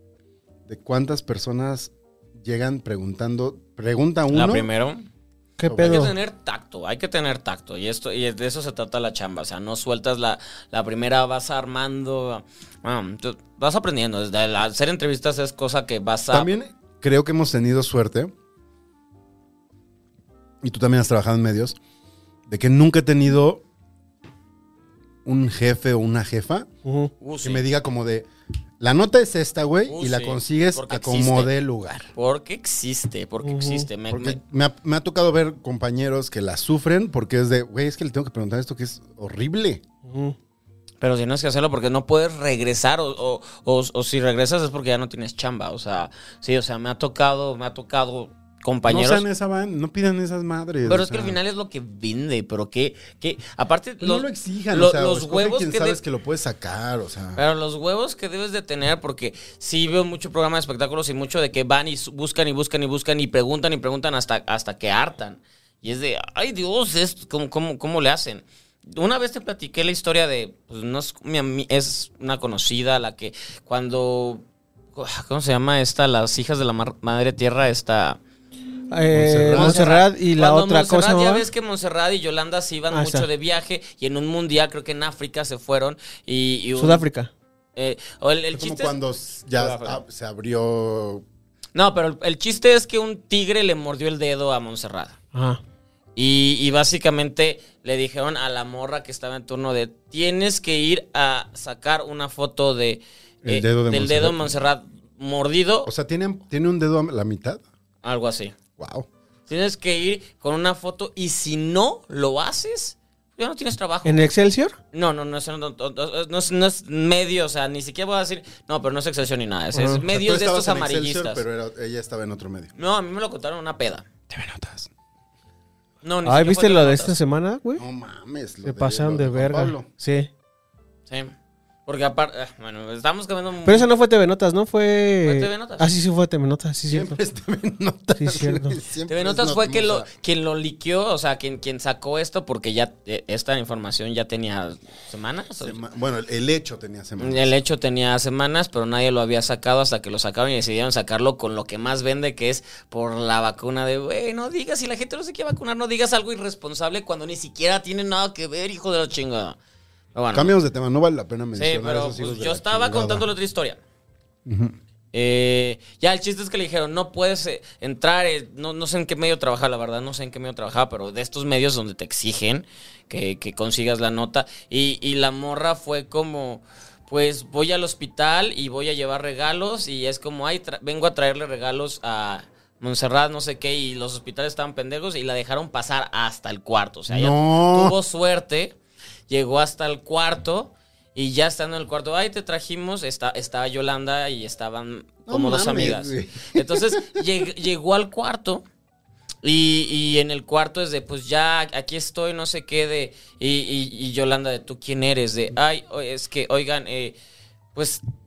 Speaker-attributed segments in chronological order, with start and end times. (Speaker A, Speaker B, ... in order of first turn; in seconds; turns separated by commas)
Speaker A: 0.7-4.7, Speaker B: 4.3-5.1, Speaker C: 5.6-6.2, Speaker A: 5.7-6.1, Speaker B: 5.8-16.5, Speaker A: 16.3-18.3, Speaker A: 20.6-21.8, Speaker A: 22.5-23.6, Speaker A: 25.2-26.7, Speaker C: 26.9-27.1, Speaker B: 27.2-27.6, Speaker A: 27.4-28.3, Speaker A: 28.8-32.1, Speaker B: 29.9-31.5, Speaker B: 32.1-34.4, Speaker C: 33.4-33.9, Speaker A: 34.1-39.8, Speaker C: 40.1-40.4, Speaker B: 41.0-49.2, Speaker A: 48.9-51.4, Speaker B: 50.9-56.0, Speaker A: 54.0-57.4, Speaker B: 57.4-78.2, Speaker C: 78.9-81.5, Speaker A: 79.1-79.9, Speaker B: 79.5-87.1, Speaker C: 82.9-83.3, Speaker C: 86.8-87.3, Speaker B: 87.8-89.0, Speaker A: 88.5-91.2, Speaker B: 89.5-90.0, Speaker B: 91.7-95.2, Speaker C: 95.3-95.6, Speaker B: 96.2-105.9, Speaker A: 103.4-104.5, Speaker A: 105.8-107.6, Speaker B: 108.0-108.5, Speaker A: 108.8-109.1, Speaker B: 109.5-114.2, Speaker C: 114.0-114.8, Speaker B: 114.9-121.4, Speaker C: 119.7-120.0, Speaker A: 120.1-122.7, Speaker B: 122.8-124.1, Speaker A: 124.3-124.9, Speaker B: 126.0-127.2, Speaker C: 126.2-127.8, Speaker A: 127.8-129.9, Speaker C: 128.6-130.3, Speaker B: 131.1-131.3, Speaker B: 131.9-133.9, Speaker C: 133.7-137.2, Speaker B: 135.2-135.9, Speaker A: 136.9-140.1, Speaker C: 138.2-138.8, Speaker B: 139.1-145.8, Speaker A: 145.6-147.5, Speaker B: 147.2-159.6, Speaker B: 160.2-160.5, Speaker A: 160.3-163.3, Speaker B: 161.6-163.8, Speaker A: 164.4-164.8, Speaker B: 165.1-188.8, Speaker A: 187.1-188.0, Speaker B: 189.3-198.6, Speaker A: 195.3-197.2, Speaker B: 199.4-207.2, Speaker B: 207.7-208.0